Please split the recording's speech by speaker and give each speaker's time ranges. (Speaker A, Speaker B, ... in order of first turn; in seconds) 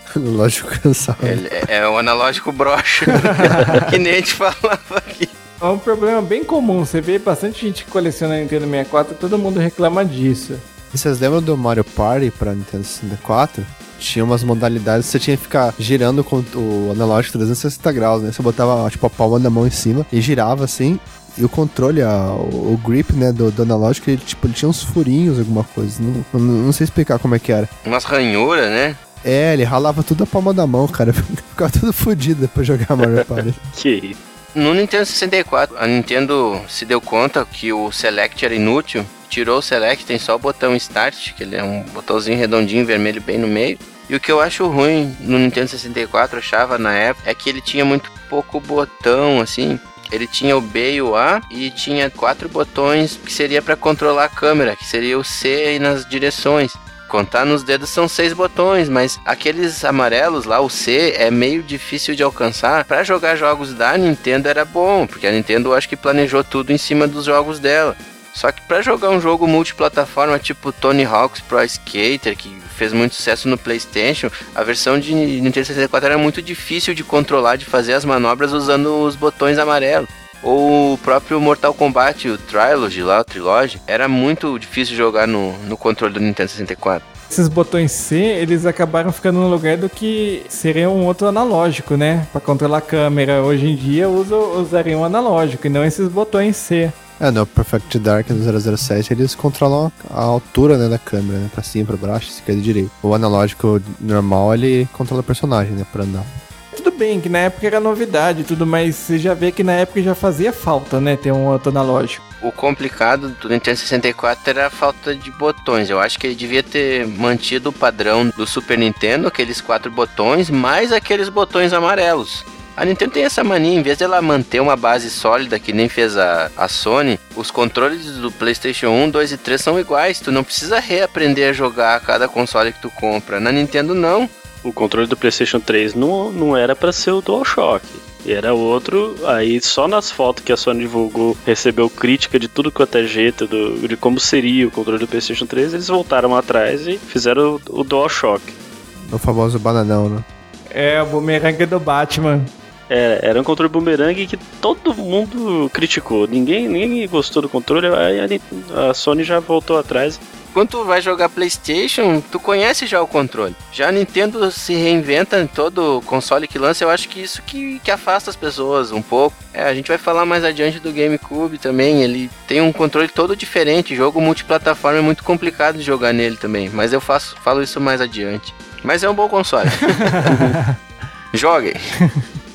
Speaker A: 0.1-1.4, 10.9-27.7, 29.2-33.6, 97.2-106.3, 149.1-150.2
Speaker B: 1.2-5.3, 27.8-29.0, 34.5-87.0, 112.4-134.3, 160.5-180.5, 181.3-181.9
Speaker C: 3.5-3.8, 5.6-10.6, 87.3-96.9, 106.7-112.2, 150.7-152.5, 180.1-180.7
Speaker D: 33.0-34.2, 134.6-148.5, 152.9-160.2